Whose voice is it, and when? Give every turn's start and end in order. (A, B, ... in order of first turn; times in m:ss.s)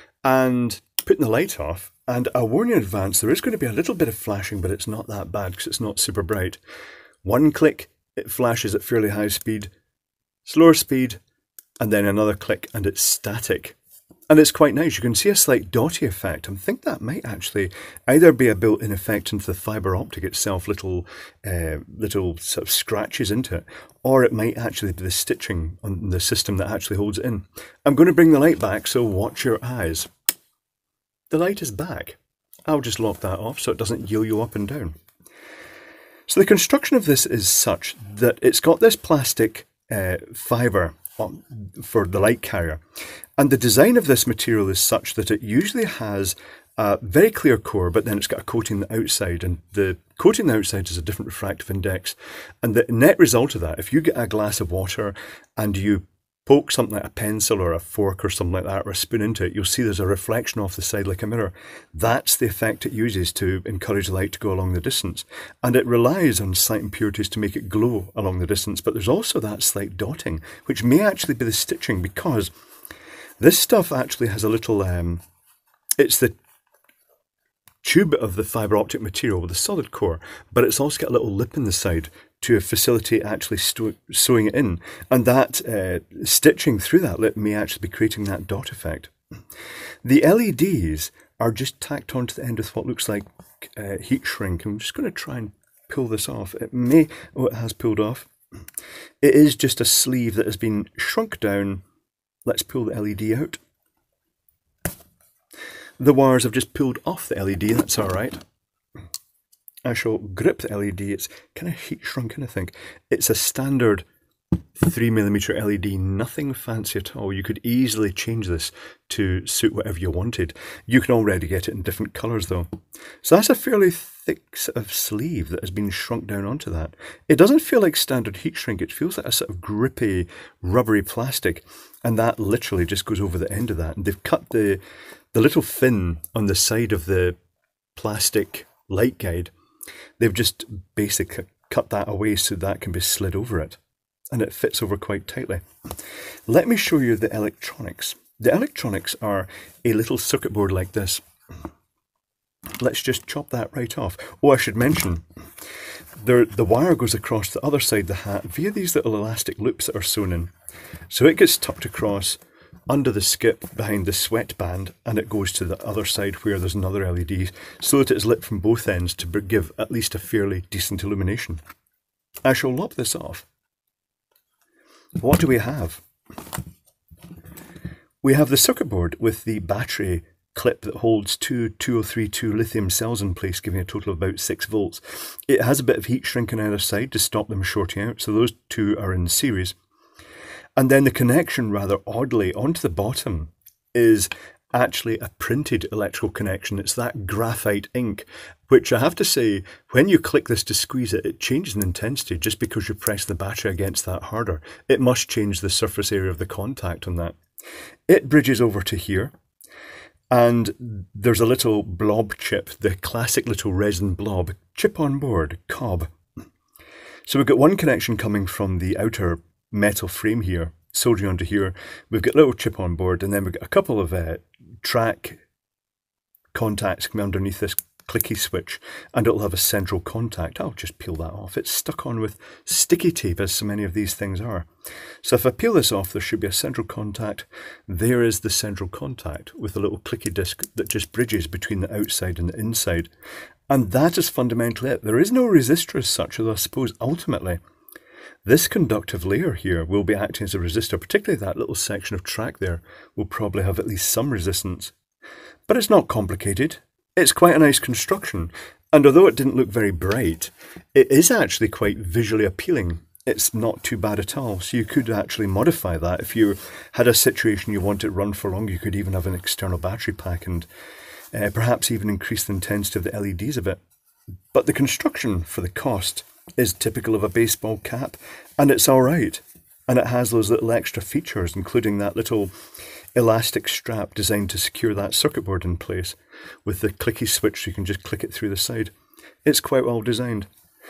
0:00.2-0:06.6 A
0:07.2-0:09.7 A
0:10.4-0:11.2 A
0:11.8-0:13.8 A
0:14.3-0:30.1 A
0:31.3-0:35.0 A
0:36.3-0:42.8 A
0:43.4-1:12.5 A
1:13.4-1:15.2 A
1:16.0-1:16.4 A
1:17.8-1:29.1 A
1:30.0-1:38.3 A
1:39.2-1:41.8 A
1:42.5-1:43.6 A
1:46.0-1:48.4 A
1:49.8-1:54.0 A
1:54.8-2:02.7 A
2:03.2-2:14.8 A
2:15.3-2:17.4 A
2:18.0-2:19.5 A
2:20.2-2:23.8 A
2:24.3-2:25.6 A
2:26.5-2:31.2 A
2:32.8-2:35.2 A
2:36.2-2:40.5 A
2:41.1-2:51.6 A
2:52.4-2:53.5 A
2:55.2-2:56.0 A
2:58.2-3:09.8 A
3:10.8-3:27.4 A
3:28.1-3:29.3 A
3:30.3-3:36.1 A
3:37.3-3:45.4 A
3:46.5-3:54.7 A
3:55.2-4:03.1 A
4:03.7-4:07.6 A
4:08.4-4:14.9 A
4:15.7-4:30.7 A
4:31.3-4:33.8 A
4:34.5-4:42.5 A
4:43.2-4:48.9 A
4:49.4-4:50.5 A